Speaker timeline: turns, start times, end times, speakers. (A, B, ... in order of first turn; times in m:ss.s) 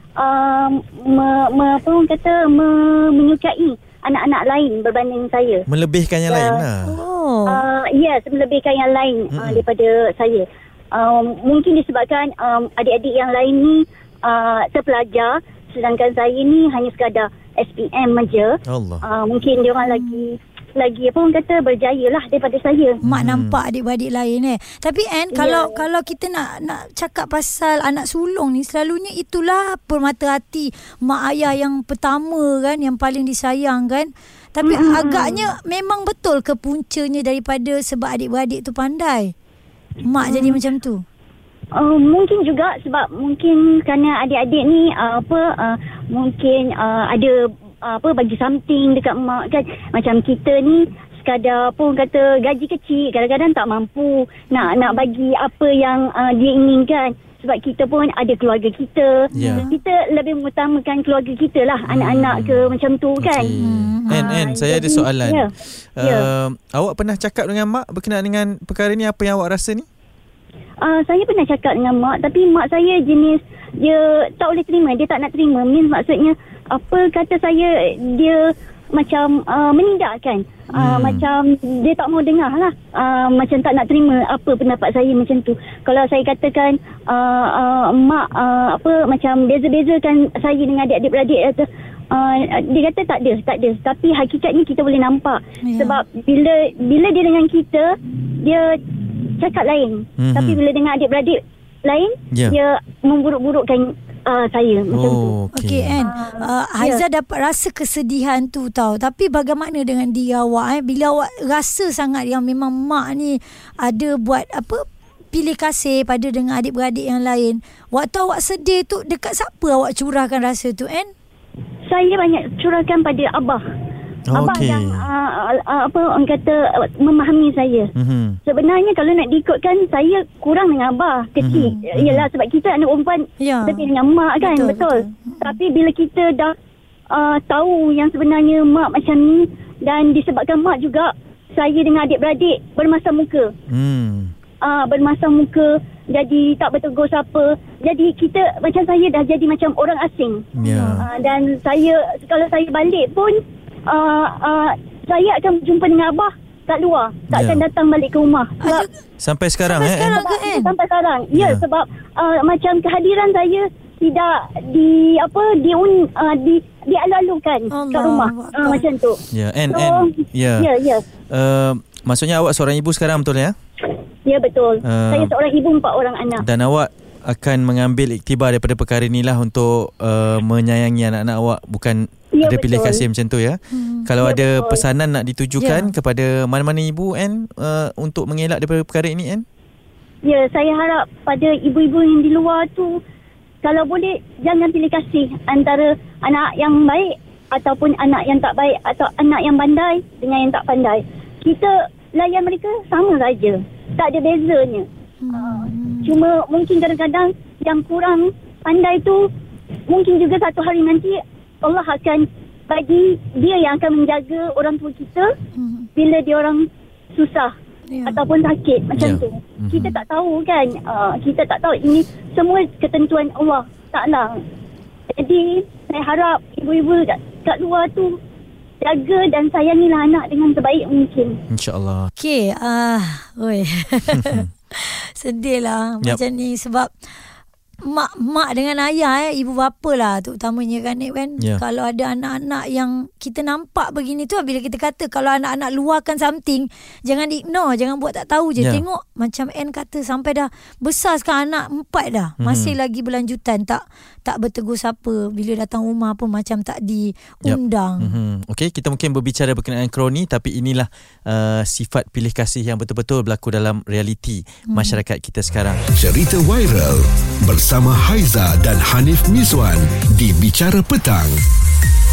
0:00.2-0:05.6 A
0:05.7-0:07.0 B
0:06.3-0:06.6 A
0:06.9-0:07.6 C
0:07.5-0:23.0 A
0:09.3-0:09.6 B
0:18.7-0:19.0 B
0:19.9-0:20.2 C
0:23.0-0:39.3 C
0:23.0-0:23.6 B
0:25.3-0:25.8 A
0:34.6-0:35.4 A
0:40.0-0:41.0 C
0:40.2-0:40.6 A
0:41.8-1:03.5 A
0:54.6-0:55.0 C
0:59.3-0:59.7 B
0:59.3-0:59.7 C
1:01.9-1:05.4 B
1:03.6-1:04.3 C
1:04.1-1:06.3 A
1:06.0-1:09.8 B
1:10.8-1:18.4 A
1:18.9-1:38.8 A
1:20.8-1:21.2 B
1:35.6-1:36.0 C
1:39.4-1:45.4 A
1:40.2-1:40.6 B
1:44.9-1:46.0 B
1:45.5-2:01.1 C
1:46.0-1:47.0 A
2:01.9-2:03.6 A
2:04.3-2:05.1 B
2:04.4-2:07.9 A
2:08.0-2:08.4 B
2:08.5-2:16.5 A
2:11.4-2:12.3 B
2:13.4-2:13.9 C
2:14.4-2:15.6 C
2:17.1-2:23.5 A
2:23.7-2:24.3 B
2:24.6-2:30.5 A
2:30.5-2:31.1 B
2:30.6-2:31.1 C
2:31.0-2:38.9 A
2:37.3-2:37.6 B
2:38.6-2:38.9 C
2:39.2-2:40.1 B
2:39.6-2:40.7 C
2:39.8-2:49.2 A
2:41.3-2:41.6 B
2:47.7-2:48.8 C
2:49.3-2:50.7 B
2:49.7-2:51.0 A
2:51.3-2:53.5 B
2:54.2-2:56.4 A
2:54.8-2:55.3 B
2:56.4-3:09.4 B
3:02.4-3:03.0 A
3:03.7-3:04.1 C
3:04.2-3:04.8 A
3:05.6-3:05.9 C
3:10.2-3:13.0 A
3:13.6-3:29.3 A
3:25.2-3:26.1 C
3:29.9-3:35.3 A
3:35.6-3:35.9 C
3:36.0-3:37.5 A
3:37.9-3:38.2 C
3:38.1-3:44.4 A
3:39.0-3:40.0 B
3:45.2-3:48.2 A
3:48.8-3:51.4 A
3:51.5-3:52.1 B
3:52.2-3:56.9 C
3:54.1-3:54.5 B
3:57.8-4:18.1 C
4:12.4-4:12.8 B
4:17.4-4:25.8 B
4:24.7-4:25.0 C
4:26.0-4:31.4 D